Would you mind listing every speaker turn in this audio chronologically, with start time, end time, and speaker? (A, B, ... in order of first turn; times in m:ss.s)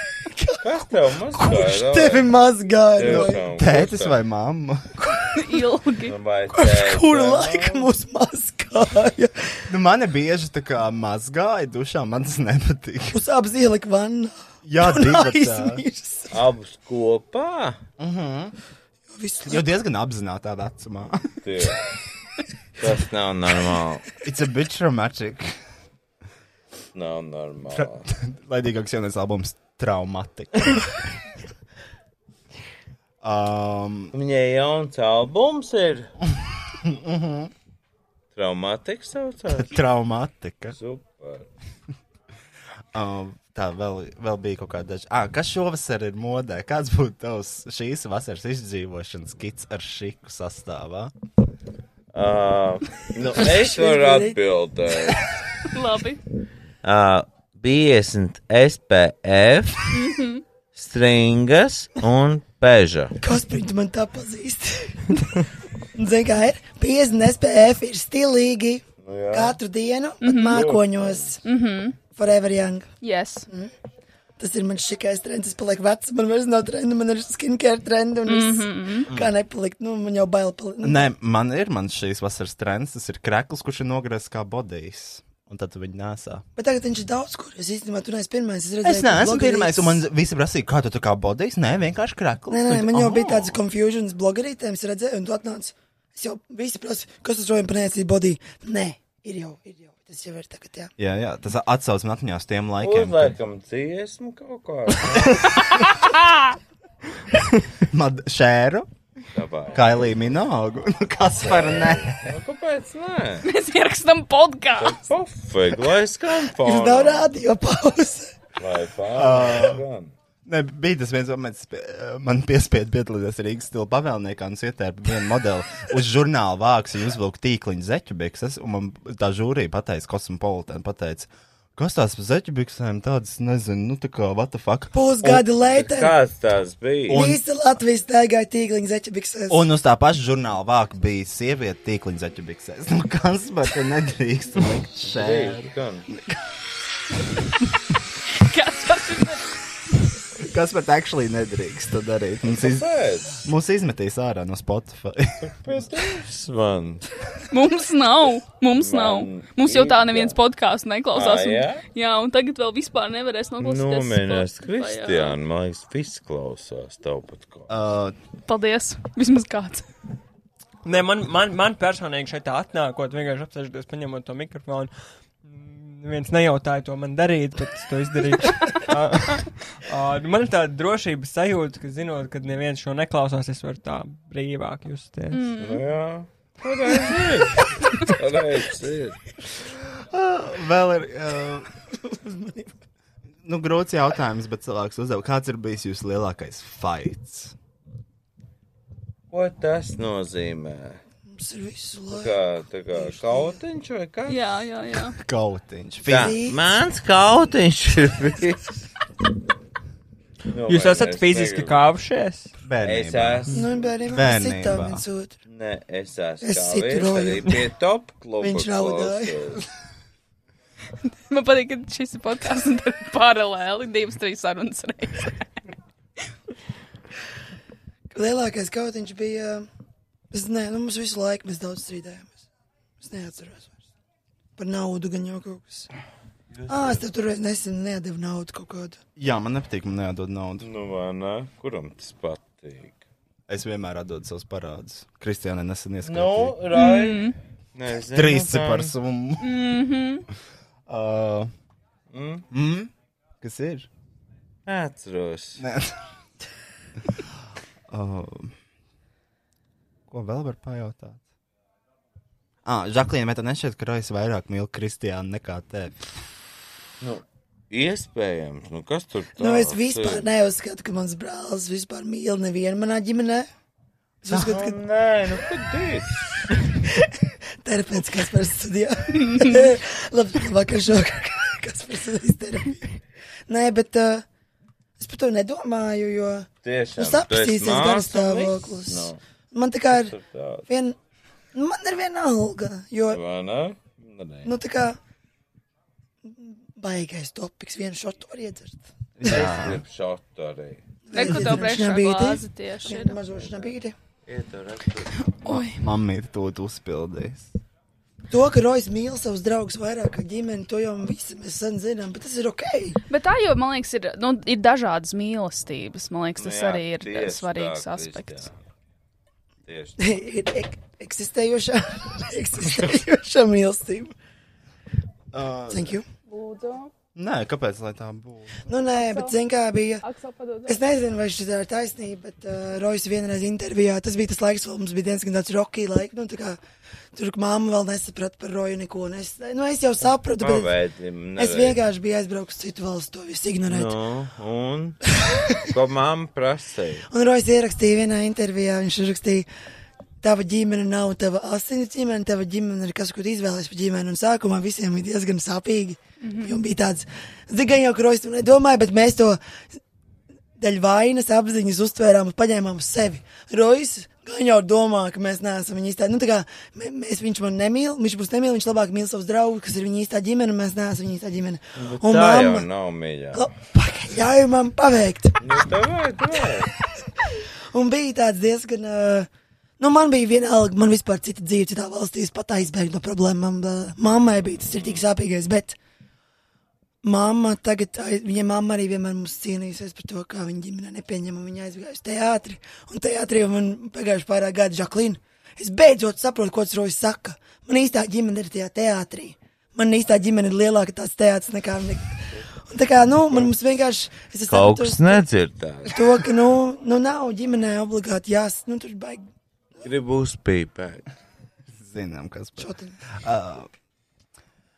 0:00.2-0:03.5 A
0:00.6-0:02.4 B
0:02.9-0:04.2 B
0:03.0-0:04.9 C
0:05.0-0:05.7 A
0:05.4-0:06.2 D
0:06.0-0:07.9 B
0:06.5-0:09.6 A
0:09.7-0:13.2 C
0:13.1-0:16.4 A
0:14.6-0:15.8 C
0:16.3-0:17.8 B
0:18.0-0:18.6 C
0:19.1-0:19.7 A
0:19.4-0:21.4 C
0:21.4-0:21.9 B
0:22.8-0:24.0 B
0:24.2-0:25.5 C
0:27.0-0:28.1 B
0:27.7-0:30.9 C
0:33.2-0:34.1 C
0:34.1-0:36.1 B
0:36.8-0:37.5 C
0:38.3-0:39.7 B
0:39.5-0:40.8 C
0:40.8-0:41.5 B
0:42.9-0:51.1 C
0:52.1-0:55.3 B
0:53.4-0:54.4 A
0:55.7-0:56.2 D
0:56.8-1:00.0 B
0:59.9-1:00.4 D
1:00.7-1:03.2 B
1:03.2-1:11.4 A
1:09.0-1:09.6 B
1:10.2-1:10.7 D
1:10.5-1:11.3 B
1:11.4-1:12.0 D
1:12.1-1:12.9 A
1:13.0-1:13.5 D
1:14.4-1:21.0 A
1:18.3-1:19.1 D
1:20.8-1:26.4 C
1:26.6-1:30.0 A
1:28.8-1:33.6 C
1:32.5-1:40.9 A
1:41.0-1:43.4 C
1:42.8-1:45.8 B
1:45.6-1:46.1 D
1:47.8-1:48.9 C
1:49.3-1:49.9 B
1:49.7-1:52.3 C
1:51.4-1:53.5 B
1:53.4-1:55.0 D
1:54.8-1:57.3 B
1:56.6-1:58.4 A
1:58.6-2:00.1 B
1:59.2-1:59.8 C
2:00.5-2:15.4 C
2:14.9-2:16.2 A
2:15.4-2:17.2 B
2:17.1-2:17.4 C
2:17.1-2:19.6 A
2:19.5-2:26.3 C
2:25.0-2:26.1 B
2:28.3-2:29.5 D
2:30.4-2:35.9 C
2:32.5-2:33.4 B
2:35.4-2:37.0 B
2:37.5-2:45.4 D
2:38.8-2:40.4 B
2:41.1-2:41.8 B
2:43.6-2:47.7 B
2:47.7-2:48.2 C
2:48.5-2:49.9 D
2:50.8-2:54.9 E
2:55.4-3:05.5 E
3:05.3-3:05.8 D
3:05.6-3:09.2 B
3:09.9-3:11.7 C
3:11.9-3:12.7 A
3:13.4-3:17.6 C
3:19.3-3:21.0 B
3:21.3-3:23.6 A
3:22.1-3:24.5 B
3:24.3-3:25.2 D
3:25.2-3:26.4 C
3:26.1-3:28.8 B
3:26.1-3:26.6 A
3:30.5-3:31.9 B
3:30.7-3:32.5 E
3:32.6-3:33.6 C
3:32.8-3:33.7 B
3:33.5-3:35.4 A
3:34.1-3:35.0 C
3:35.5-3:39.6 B
3:36.4-3:37.6 A
3:38.4-3:39.6 A
3:41.3-3:45.4 D
3:48.1-3:49.7 A
3:50.3-3:52.4 A
3:53.0-3:53.8 A
3:54.6-3:55.9 A
3:56.5-3:57.0 B
3:56.7-3:59.0 A
3:59.2-4:00.7 C
4:00.6-4:03.0 B
4:03.5-4:06.6 C
4:06.0-4:08.9 B
4:06.7-4:07.3 D
4:08.1-4:09.6 C
4:09.4-4:10.3 D
4:10.9-4:11.5 C
4:12.1-4:12.5 B
4:12.5-4:13.9 C
4:14.7-4:15.6 B
4:15.6-4:16.0 C
4:17.9-4:18.6 C
4:20.1-4:21.2 C
4:22.6-4:26.1 C
4:27.0-4:30.3 B
4:29.4-4:33.5 A
4:34.2-4:34.8 A
4:34.3-4:34.6 C
4:34.3-4:36.5 B
4:36.9-4:43.0 A
4:39.2-4:39.7 D
4:43.5-4:44.2 A
4:45.0-4:50.2 A
4:46.6-4:49.2 B
4:49.9-4:50.6 B
4:50.7-4:51.0 A
4:51.5-4:53.2 A
4:53.1-4:54.5 B
4:54.4-4:55.0 A
4:56.2-4:58.9 A
4:59.2-4:59.8 C
4:59.2-5:00.8 B
5:01.1-5:04.0 A
5:01.1-5:03.2 D
5:04.3-5:05.3 B
5:05.4-5:05.8 D
5:05.6-5:07.5 C
5:08.3-5:13.0 A
5:13.1-5:18.5 D
5:16.4-5:18.6 B
5:19.7-5:20.0 B
5:20.0-5:24.1 A
5:25.3-5:26.0 C
5:25.7-5:26.1 A
5:26.3-5:26.9 D
5:27.2-5:28.7 C
5:28.7-5:30.0 A
5:29.0-5:29.3 D
5:30.0-5:30.8 D
5:30.7-5:36.6 A
5:37.1-5:40.7 A
5:40.4-5:41.8 B
5:41.4-5:43.9 A
5:43.7-5:45.0 B
5:45.3-5:45.6 A
5:45.6-5:47.1 B
5:47.1-5:49.5 A
5:50.2-5:59.4 A
5:56.2-5:56.6 D
6:00.6-6:12.7 A
6:11.8-6:13.5 B
6:13.4-6:15.5 A
6:15.4-6:16.7 B
6:17.2-6:25.8 A
6:27.0-6:45.2 A
6:44.5-6:46.1 B
6:45.9-6:49.3 A
6:49.8-6:51.1 B
6:51.7-6:53.7 C
6:52.6-6:53.0 A